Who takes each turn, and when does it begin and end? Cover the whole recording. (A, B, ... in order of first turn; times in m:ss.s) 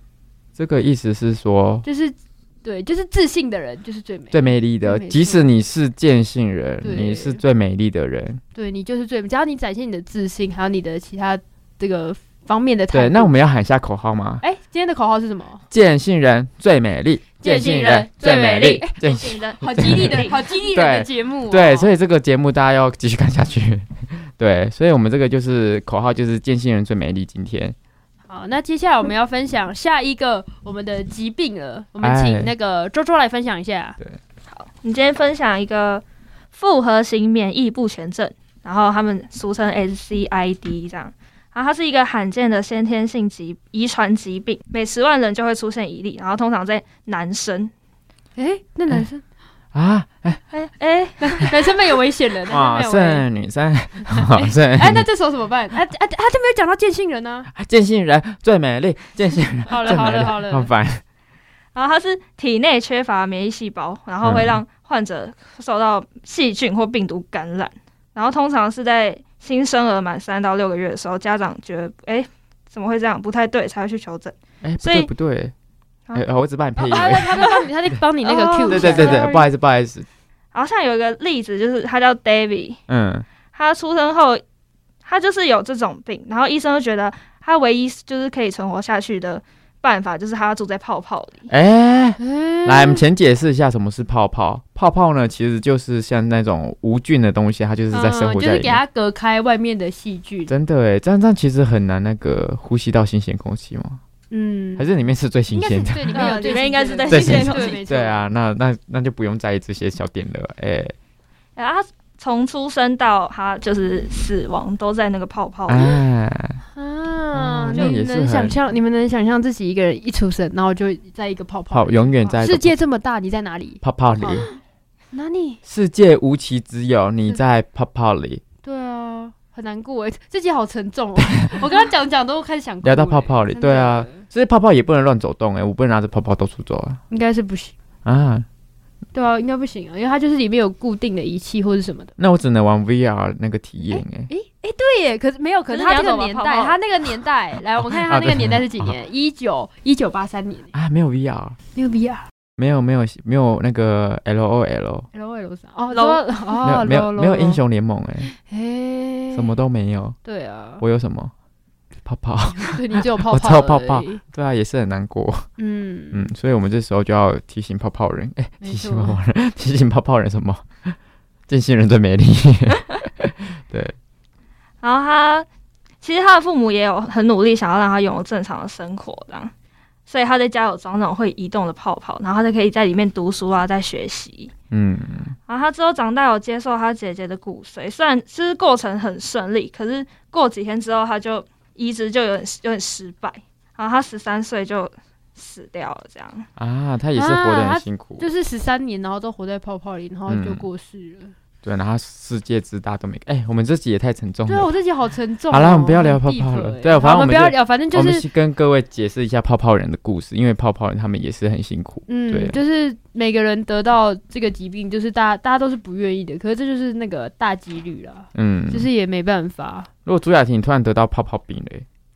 0:00.6-0:01.8 A
0:01.8-0:05.5 B
0:04.3-0:08.4 A
0:06.8-0:07.4 B
0:08.5-0:13.3 B
0:12.9-0:14.4 A
0:14.4-0:15.6 B
0:15.7-0:27.8 A
0:17.4-0:21.9 B
0:17.4-0:20.5 C
0:28.3-0:34.0 B
0:32.0-0:32.5 A
0:34.5-0:47.7 C
0:48.4-0:49.2 B
0:49.7-0:50.4 A
0:50.5-0:51.7 C
0:51.2-0:53.2 B
0:52.5-0:55.1 A
0:54.1-0:57.5 B
0:57.5-1:01.0 A
0:59.7-1:00.7 B
1:01.7-1:15.1 C
1:04.2-1:04.6 A
1:14.6-1:15.5 A
1:16.1-1:17.5 A
1:16.8-1:19.5 B
1:17.4-1:17.6 C
1:18.2-1:19.3 C
1:18.7-1:20.0 A
1:20.5-1:22.8 C
1:22.9-1:23.2 A
1:23.5-1:24.4 C
1:25.0-1:31.5 C
1:31.5-1:38.8 A
1:32.2-1:33.0 B
1:37.9-1:40.5 B
1:40.5-1:44.0 A
1:44.3-1:44.9 B
1:44.8-1:50.9 A
1:45.5-1:48.2 B
1:46.1-1:47.8 C
1:51.6-1:56.0 C
1:55.7-1:56.6 A
1:56.7-2:04.6 B
1:57.3-1:58.6 A
2:01.7-2:02.7 A
2:03.8-2:04.5 A
2:05.1-2:05.6 B
2:05.6-2:08.4 A
2:08.6-2:14.2 B
2:12.8-2:17.0 A
2:17.1-2:17.7 B
2:18.0-2:18.4 A
2:19.1-2:22.1 B
2:22.2-2:24.3 A
2:23.9-2:30.7 B
2:25.7-2:26.8 C
2:27.9-2:28.9 A
2:30.7-2:31.6 A
2:31.7-2:32.2 B
2:32.6-2:35.1 A
2:35.1-2:37.6 B
2:35.9-2:36.6 C
2:36.6-2:38.3 A
2:38.3-2:39.5 B
2:39.3-2:40.2 A
2:40.2-2:40.8 B
2:40.8-2:41.3 A
2:42.0-2:45.4 A
2:42.7-2:44.2 B
2:45.6-2:46.2 B
2:46.1-2:51.0 A
2:48.6-2:49.2 B
2:51.5-2:53.9 A
2:54.8-2:55.4 C
2:56.0-2:59.5 C
3:00.1-3:04.5 C
3:04.7-3:05.4 A
3:05.5-3:16.5 C
3:16.6-3:18.3 A
3:17.2-3:21.3 B
3:20.3-3:20.6 A
3:21.6-3:24.7 A
3:24.5-3:28.3 B
3:25.5-3:32.6 A
3:32.1-3:39.9 B
3:38.3-3:38.9 A
3:40.0-3:41.8 A